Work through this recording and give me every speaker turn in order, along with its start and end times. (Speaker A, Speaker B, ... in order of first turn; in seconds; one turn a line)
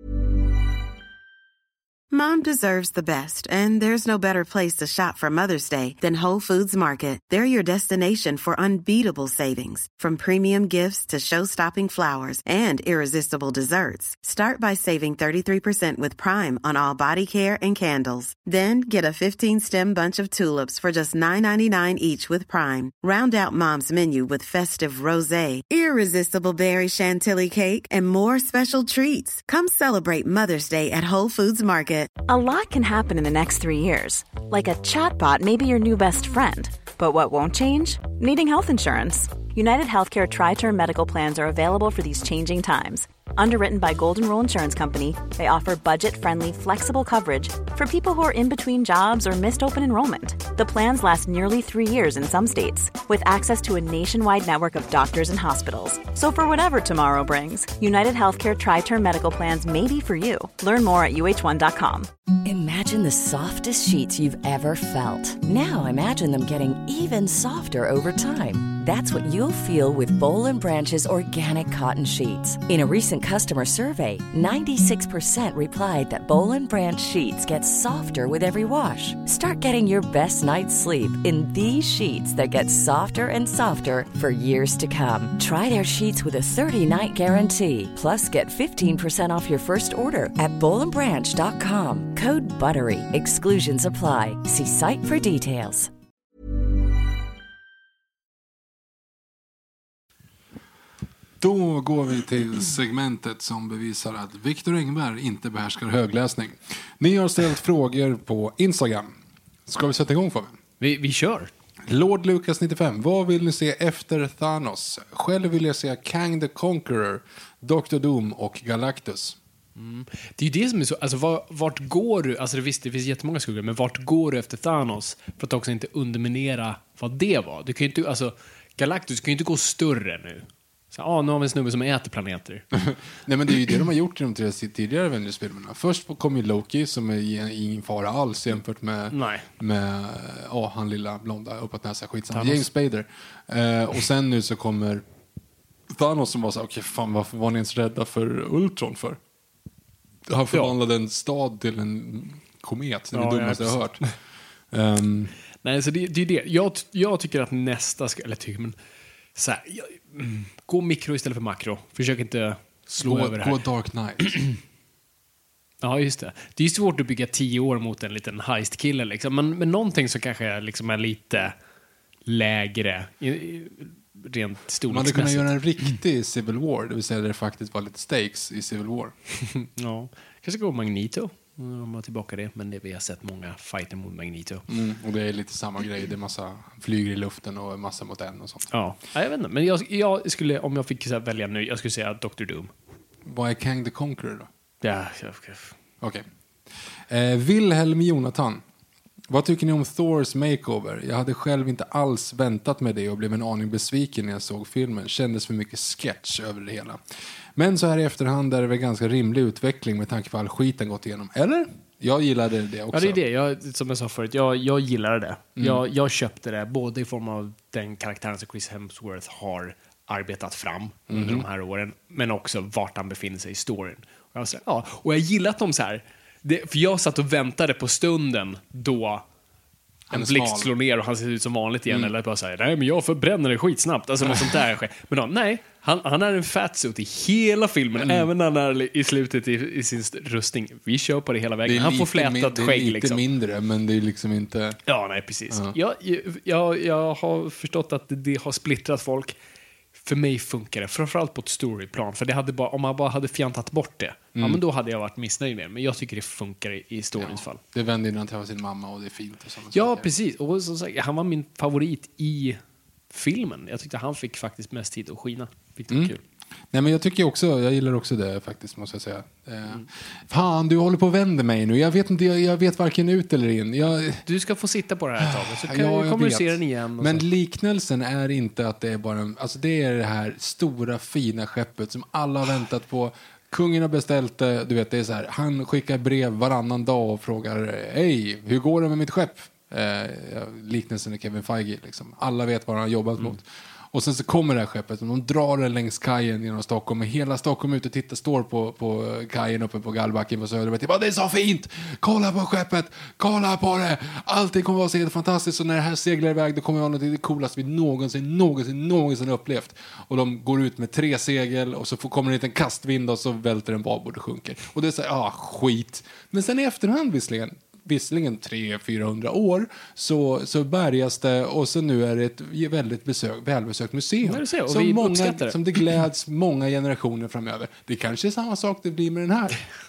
Speaker A: 2.1-32.1
Speaker B: 32.3-62.1
Speaker C: 62.5-95.9
Speaker D: 101.4-109.1
Speaker D: 109.7-110.6
Speaker E: 110.8-111.5
Speaker D: 111.9-119.4
Speaker E: 119.8-132.7
Speaker D: 132.7-145.0
Speaker E: 139.1-139.5
Speaker E: 142.3-142.7
Speaker D: 145.9-149.2
Speaker D: 150.3-154.1
Speaker E: 153.1-154.1
Speaker D: 154.7-155.3
Speaker E: 155.6-158.8
Speaker E: 159.3-163.6
Speaker D: 163.0-164.4
Speaker E: 164.2-164.6
Speaker E: 165.8-171.6
Speaker E: 172.3-176.0
Speaker D: 174.9-179.2
Speaker E: 179.4-184.7
Speaker D: 184.7-188.7
Speaker E: 188.7-192.7
Speaker D: 193.2-194.5
Speaker E: 194.8-195.8
Speaker D: 196.0-196.3
Speaker D: 197.1-198.6
Speaker D: 199.3-207.0
Speaker D: 207.6-213.2
Speaker E: 212.9-229.2
Speaker D: 215.6-215.8
Speaker D: 221.1-221.5
Speaker D: 230.1-230.7
Speaker E: 230.1-243.2
Speaker D: 234.2-234.6
Speaker D: 238.0-238.3
Speaker D: 241.7-244.8
Speaker E: 244.9-249.3
Speaker D: 245.5-245.8
Speaker E: 250.0-257.6
Speaker D: 254.3-254.6
Speaker D: 257.2-260.1
Speaker E: 259.7-262.6
Speaker E: 263.1-266.2
Speaker D: 266.7-274.3
Speaker E: 274.2-277.3
Speaker D: 275.2-329.6
Speaker E: 324.2-325.8